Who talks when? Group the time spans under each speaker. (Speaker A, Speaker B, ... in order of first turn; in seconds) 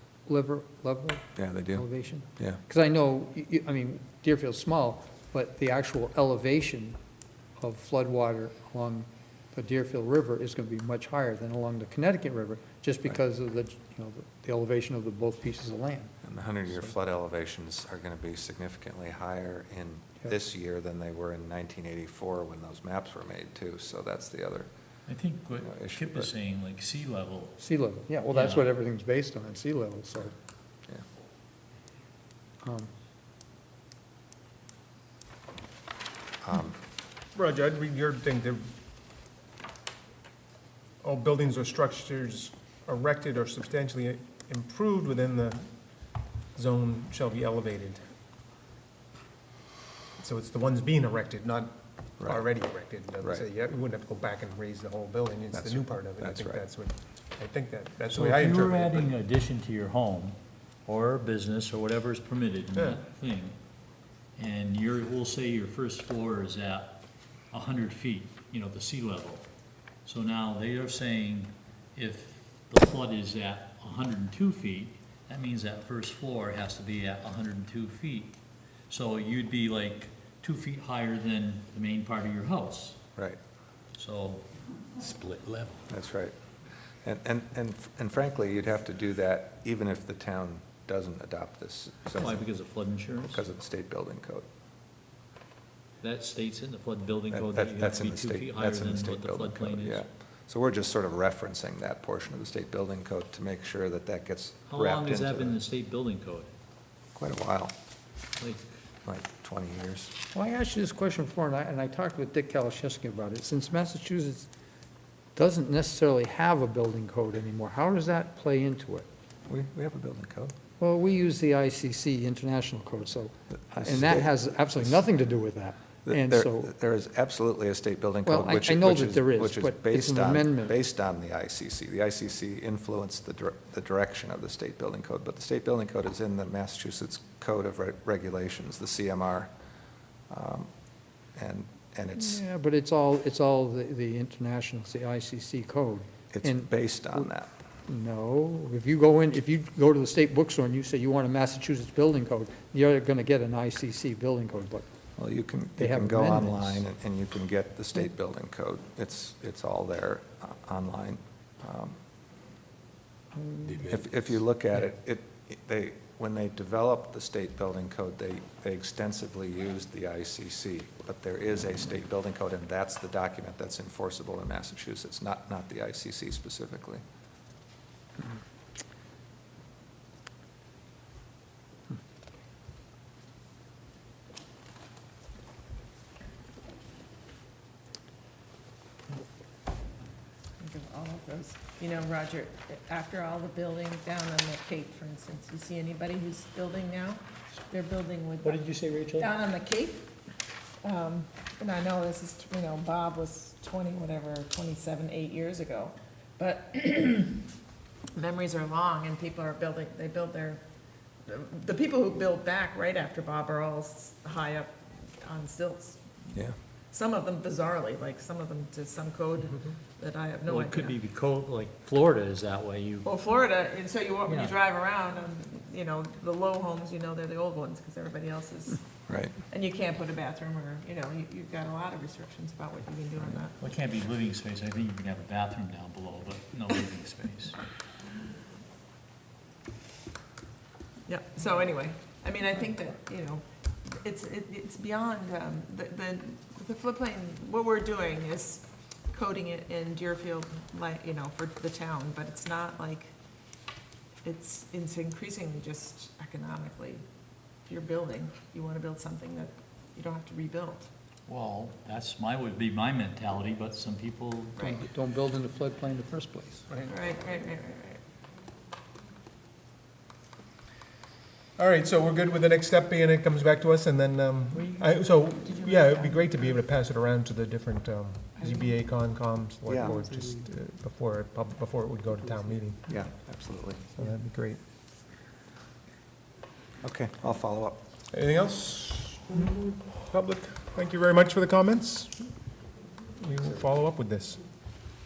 Speaker A: 0.3-7.0, 7.6-16.1, 27.6-30.3, 32.6-32.9, 110.3-114.5, 115.3-119.1, 120.8-126.7, 128.2-130.8, 142.2-147.3, 147.8-154.9, 155.8-156.8, 163.3-163.9, 264.6-266.7
Speaker B: 1.4-1.8, 16.2-24.7, 25.6-26.3, 36.4-36.8, 55.5-56.6, 85.9-86.3, 87.0-92.5, 93.3-94.5, 97.3-105.6, 107.1-107.7, 109.0-110.1, 119.5-120.5, 123.7-125.0, 126.0-139.5, 140.3-140.7, 141.3-142.4, 146.3-147.5, 155.2-162.0, 163.8-177.0, 229.1-229.3, 279.7-279.9, 282.9-283.8, 286.8-287.8
Speaker C: 25.1-27.6, 28.3-28.6, 58.1-63.5, 64.3-67.0, 67.5-69.5, 70.0-78.4, 78.9-83.0, 84.0-84.4, 85.0-85.9, 92.1-93.4, 96.0-100.0, 104.7-106.5, 108.4-108.7, 198.4-199.3, 220.5-223.1, 233.6-237.6, 261.3-264.7
Speaker D: 37.3-38.7, 41.0-45.7, 46.5-48.0, 50.2-59.1, 62.7-63.0, 266.7-266.9, 271.6-282.9, 283.9-284.6, 288.1-292.2, 293.2-294.4
Speaker E: 190.6-198.7, 199.2-200.1, 200.8-207.4, 208.1-210.6, 211.2-216.2, 216.9-221.0, 223.0-228.8, 229.5-233.6, 241.1-253.1, 254.2-257.0, 257.6-260.9, 264.6-264.8, 266.9-268.0, 275.4-276.6, 278.4-278.7